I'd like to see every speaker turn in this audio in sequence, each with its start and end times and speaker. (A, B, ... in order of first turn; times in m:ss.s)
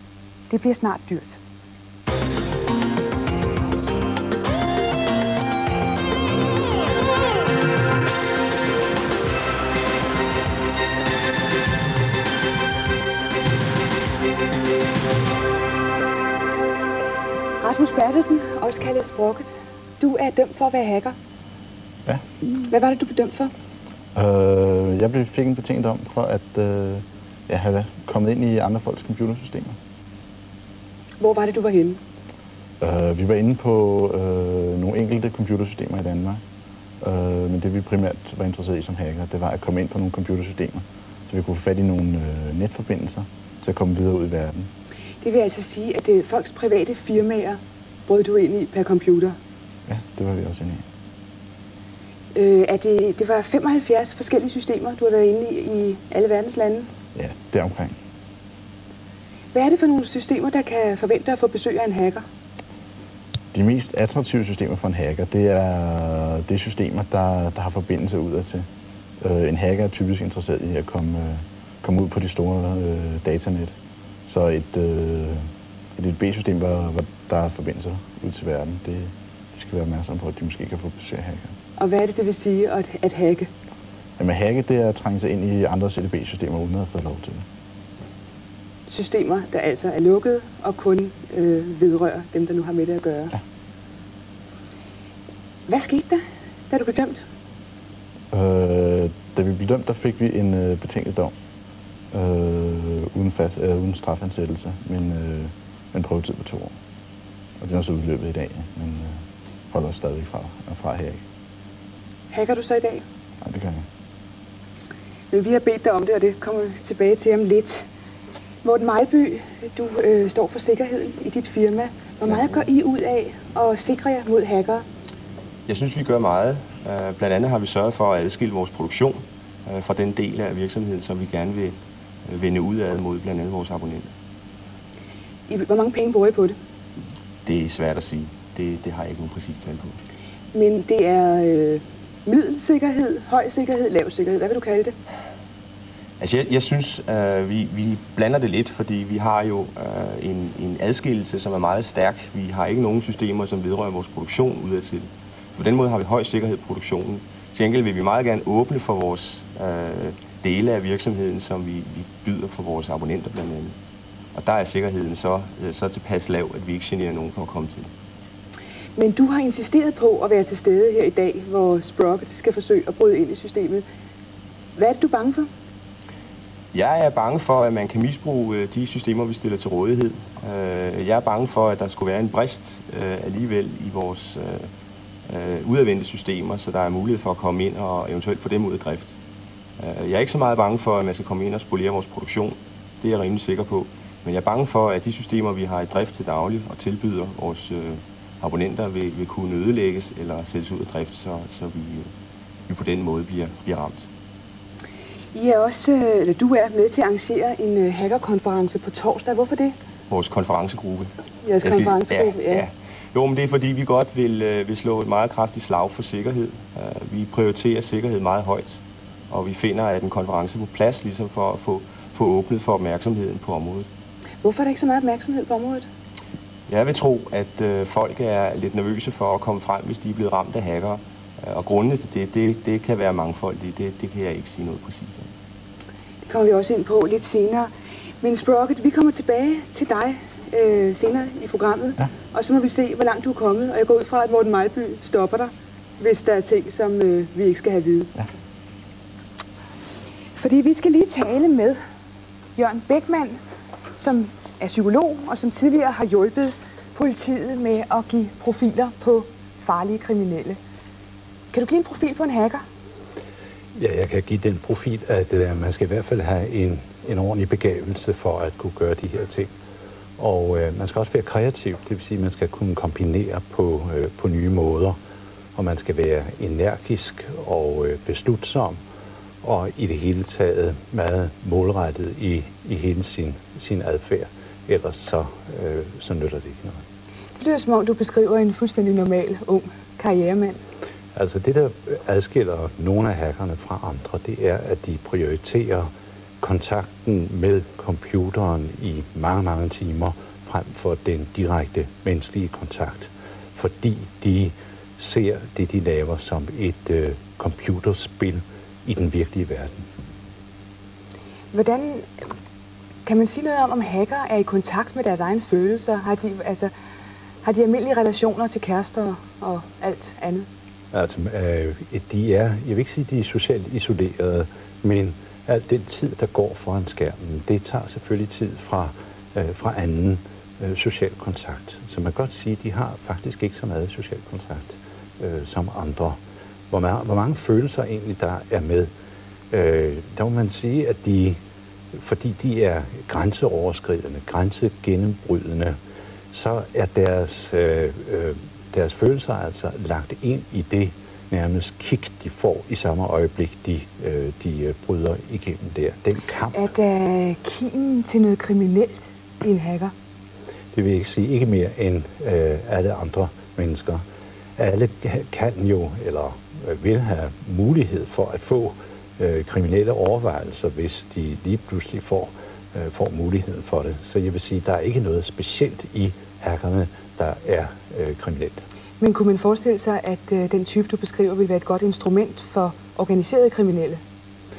0:00.5-0:01.4 A
0:17.6-0:21.1 A
0:22.7-0:23.5 A
0:24.1-0:29.8 B
0:31.2-0:32.0 A
0:32.8-0:36.4 B
0:37.0-0:44.7 B
0:45.2-0:49.4 A
0:49.9-0:50.8 B
0:52.3-0:56.9 A
0:57.1-0:58.0 B
0:59.5-1:02.2 A
1:03.5-1:08.7 B
1:09.2-1:13.8 B
1:14.3-1:21.5 B
1:21.8-1:23.5 A
1:24.2-1:27.4 B
1:28.9-1:33.3 A
1:35.7-1:37.2 A
1:38.3-1:41.3 B
1:42.1-1:46.8 B
1:47.6-1:51.2 B
1:52.3-1:53.0 A
1:53.4-1:53.8 B
1:55.3-1:57.9 A
1:58.6-2:04.8 A
2:02.3-2:02.6 C
2:05.7-2:11.8 C
2:12.3-2:14.1 C
2:15.5-2:16.6 A
2:17.4-2:20.0 C
2:20.5-2:24.9 A
2:26.2-2:43.7 C
2:44.3-2:47.9 C
2:49.0-2:53.8 A
2:54.8-2:55.5 A
2:56.7-3:04.7 C
3:05.3-3:09.1 C
3:09.8-3:22.1 C
3:22.7-3:24.1 C
3:25.3-3:29.7 A
3:30.1-3:43.9 C
3:31.4-3:32.6 A
3:44.4-3:45.8 A
3:46.7-3:55.3 C
3:56.3-4:08.1 A
4:10.4-4:11.8 A
4:12.6-4:13.4 A
4:14.0-4:20.6 A
4:21.5-4:22.6 A
4:23.8-4:29.5 D
4:30.2-4:35.0 D
4:35.6-4:38.8 D
4:39.4-4:46.8 D
4:47.4-4:50.6 A
4:51.1-5:09.8 D
5:11.5-5:12.1 A
5:13.1-5:16.7 A
5:17.4-5:20.5 A
5:20.9-5:38.9 D
5:39.5-5:41.4 D
5:41.9-5:45.8 D
5:46.3-5:56.7 D
5:56.5-5:59.9 A
6:00.7-6:04.0 D
6:04.6-6:18.6 D
6:19.0-6:24.0 A